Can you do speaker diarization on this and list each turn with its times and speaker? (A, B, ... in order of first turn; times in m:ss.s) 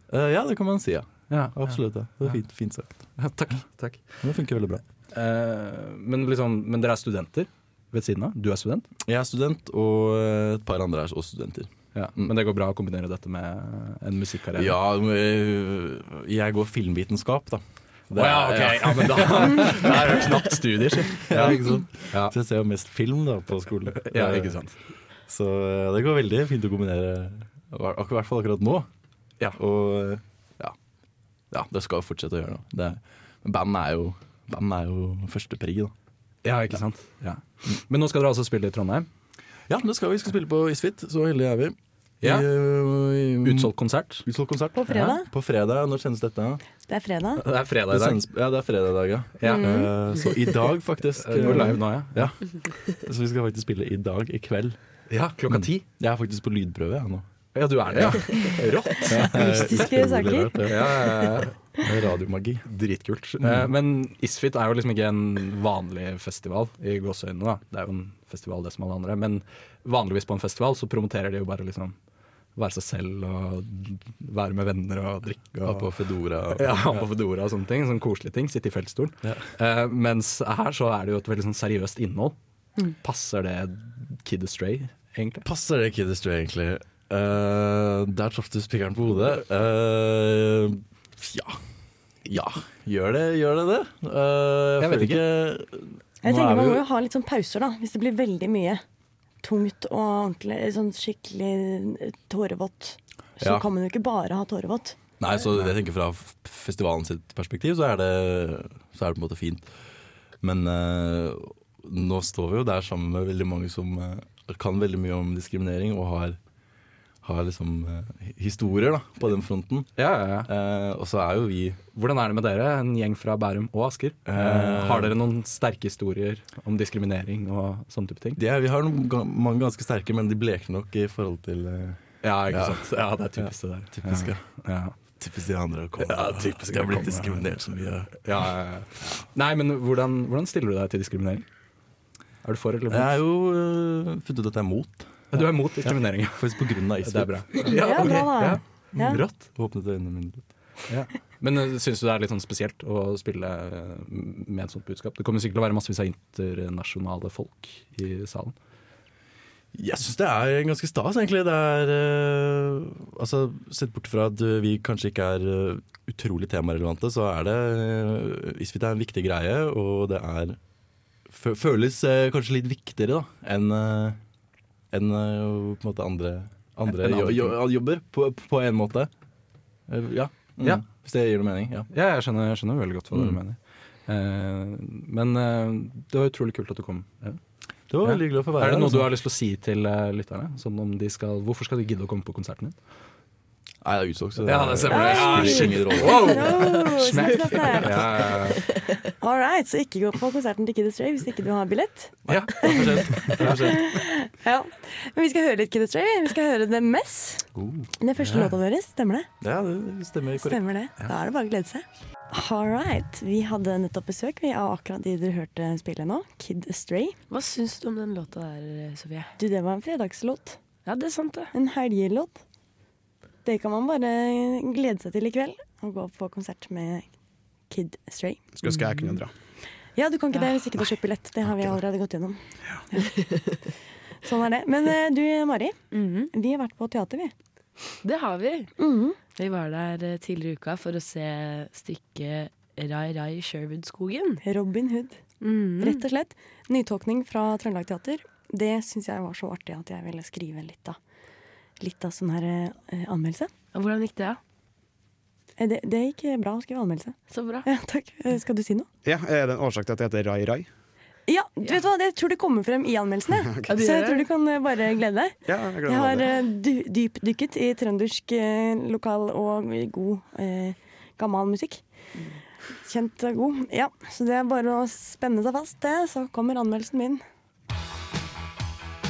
0:00.1-0:03.0 A
0:01.3-0:02.4 B
0:03.2-0:04.2 B
0:04.2-0:04.8 A
0:05.1-0:08.9 B
0:09.0-0:12.3 A
0:11.9-0:14.7 B
0:14.6-0:20.5 A
0:18.1-0:22.3 B
0:21.2-0:24.6 A
0:24.0-0:24.8 B
0:25.3-0:28.9 A
0:29.6-0:30.7 A
0:31.5-0:35.9 A
0:36.4-0:39.1 B
0:39.7-0:43.7 A
0:42.2-0:42.5 B
0:43.4-0:44.3 B
0:44.2-0:46.6 A
0:44.7-0:45.3 C
0:46.9-0:47.4 C
0:47.4-0:48.2 B
0:47.9-0:54.8 A
0:49.4-0:49.6 B
0:51.0-0:52.6 B
0:55.1-0:55.8 B
0:55.5-0:57.2 A
0:57.5-0:59.8 B
0:57.9-1:02.7 A
0:59.3-1:00.6 C
1:00.6-1:01.9 B
1:02.6-1:12.0 B
1:03.4-1:03.7 A
1:12.6-1:15.9 B
1:15.6-1:17.0 A
1:16.5-1:22.3 B
1:23.0-1:25.4 B
1:25.4-1:31.6 A
1:32.2-1:36.8 A
1:34.8-1:35.2 B
1:36.2-1:38.8 C
1:39.4-1:45.0 C
1:43.4-1:43.6 A
1:45.2-1:49.7 A
1:50.4-1:56.4 A
1:57.2-1:59.9 A
2:00.0-2:00.5 B
2:00.4-2:01.8 A
2:01.9-2:08.4 B
2:04.3-2:05.1 A
2:08.4-2:18.5 A
2:12.2-2:14.9 B
2:16.0-2:21.4 B
2:22.4-2:23.2 B
2:22.9-2:28.0 A
2:25.3-2:29.5 B
2:27.6-2:29.2 C
2:29.1-2:30.4 A
2:30.9-2:38.5 B
2:39.7-2:50.6 A
2:51.3-2:54.2 A
2:54.9-2:59.1 A
2:56.8-2:57.6 B
2:59.9-3:01.9 A
3:01.9-3:07.4 B
3:03.1-3:03.4 A
3:07.9-3:09.1 A
3:08.0-3:12.8 B
3:13.8-3:16.6 A
3:14.4-3:18.7 B
3:14.9-3:18.3 C
3:19.2-3:27.5 C
3:22.3-3:23.9 A
3:22.3-3:23.6 B
3:28.0-3:29.3 C
3:28.2-3:28.5 B
3:29.4-3:30.6 A
3:30.4-3:37.2 C
3:37.3-3:39.3 D
3:39.4-3:40.6 C
3:40.8-3:41.5 D
3:41.5-3:42.4 C
3:43.4-3:47.1 C
3:47.7-3:48.5 C
3:48.6-3:49.3 E
3:48.8-3:49.1 D
3:49.9-3:52.4 C
3:54.2-3:57.3 C
3:55.9-3:56.3 D
3:58.0-3:58.7 D
3:58.8-3:59.2 C
3:59.3-4:04.4 D
4:04.4-4:05.2 C
4:05.4-4:06.0 D
4:05.8-4:11.0 C
4:11.8-4:13.5 C
4:13.7-4:14.4 D
4:15.6-4:18.9 C
4:17.3-4:17.7 D
4:19.0-4:20.7 E
4:21.3-4:31.8 C
4:23.7-4:24.3 D
4:25.4-4:26.2 E
4:32.8-4:37.2 C